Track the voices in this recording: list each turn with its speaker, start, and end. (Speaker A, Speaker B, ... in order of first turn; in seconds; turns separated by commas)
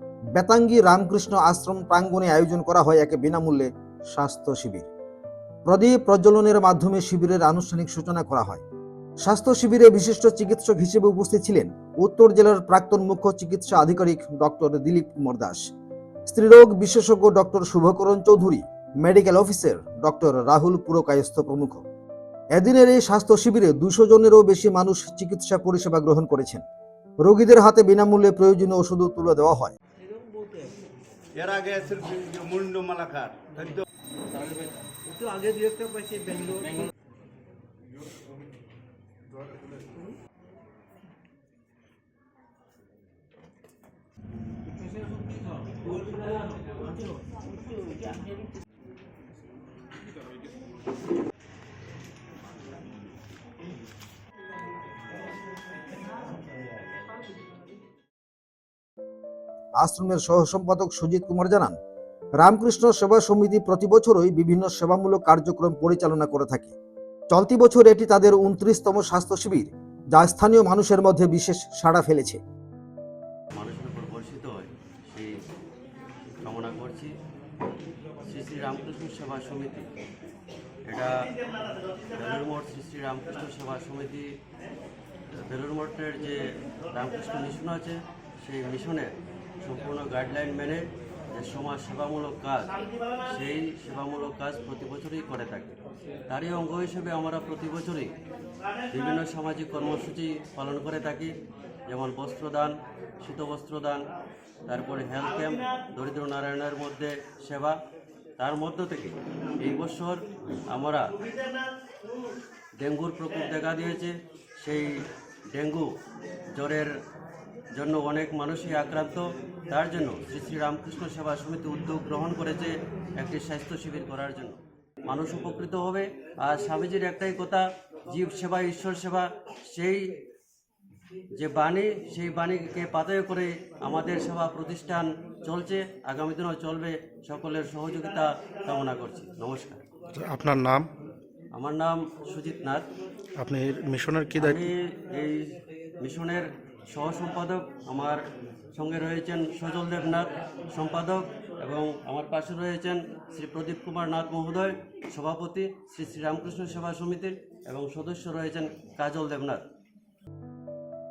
Speaker A: 0.4-4.9, Speaker A: 5.7-8.6, Speaker A: 9.2-15.7, Speaker A: 16.3-21.8, Speaker A: 22.6-26.6, Speaker A: 27.2-29.7, Speaker B: 30.1-30.7, Speaker C: 31.4-33.9, Speaker B: 35.1-36.9, Speaker B: 46.1-46.4, Speaker A: 59.8-61.8, Speaker A: 62.4-66.7, Speaker A: 67.3-72.4, Speaker D: 73.5-75.3, Speaker D: 76.4-77.1, Speaker D: 78.3-79.9, Speaker D: 80.9-81.2, Speaker D: 82.2-84.3, Speaker D: 85.4-86.4, Speaker D: 86.9-89.1, Speaker D: 89.6-92.7, Speaker D: 93.3-95.8, Speaker D: 96.3-98.1, Speaker D: 98.9-101.3, Speaker D: 101.9-104.0, Speaker D: 104.7-107.8, Speaker D: 108.4-111.2, Speaker D: 112.8-115.0, Speaker D: 115.5-115.9, Speaker D: 116.5-116.9, Speaker D: 117.8-130.2, Speaker D: 131.4-139.8, Speaker E: 140.1-140.9, Speaker D: 141.5-142.9, Speaker E: 143.4-144.7, Speaker D: 144.4-148.2, Speaker D: 148.7-159.6